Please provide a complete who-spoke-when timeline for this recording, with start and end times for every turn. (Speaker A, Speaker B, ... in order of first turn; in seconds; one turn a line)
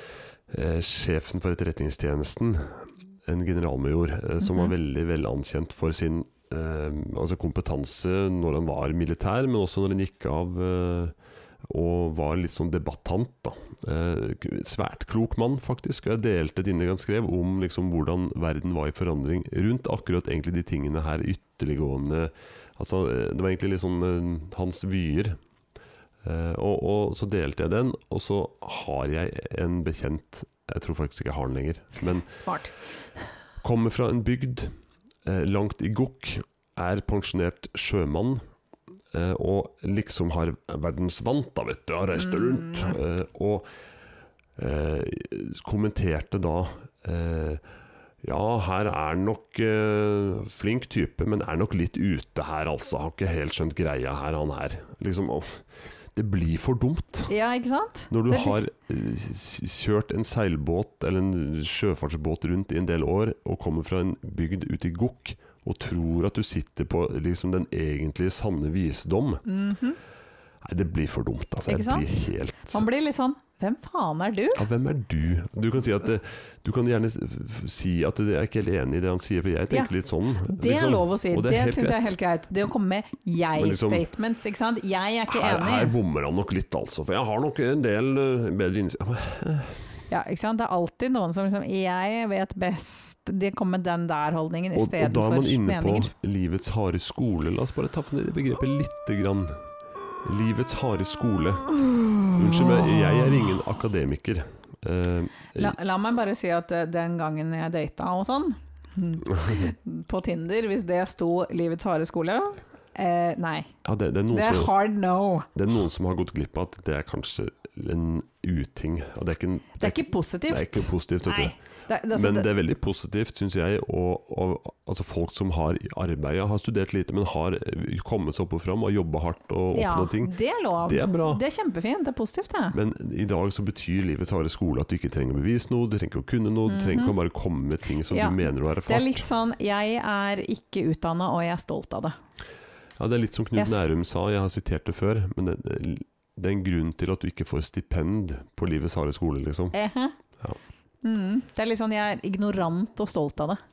Speaker A: 0.5-25.4
Speaker B: 4.4-4.7
Speaker A: 26.2-32.3
Speaker B: 32.4-32.8
Speaker A: 33.6-34.7
Speaker A: 35.2-38.4
Speaker A: 39.1-43.7
Speaker B: 42.5-42.9
Speaker A: 44.6-47.6
Speaker A: 48.2-57.3
Speaker B: 57.3-58.6
Speaker A: 58.1-69.4
Speaker B: 69.5-70.0
Speaker A: 70.6-72.8
Speaker B: 71.7-74.6
Speaker A: 74.5-82.1
Speaker B: 80.5-86.0
Speaker A: 83.6-84.0
Speaker A: 85.3-90.0
Speaker B: 90.1-96.1
Speaker A: 94.7-99.7
Speaker A: 100.2-105.8
Speaker B: 105.5-113.7
Speaker A: 113.8-114.7
Speaker B: 114.3-115.5
Speaker A: 115.5-121.6
Speaker B: 119.8-122.5
Speaker A: 122.1-131.4
Speaker B: 129.7-132.8
Speaker A: 132.7-139.2
Speaker B: 136.7-137.2
Speaker B: 138.1-142.2
Speaker A: 143.0-149.8
Speaker B: 143.6-143.9
Speaker B: 149.7-150.1
Speaker B: 151.0-153.6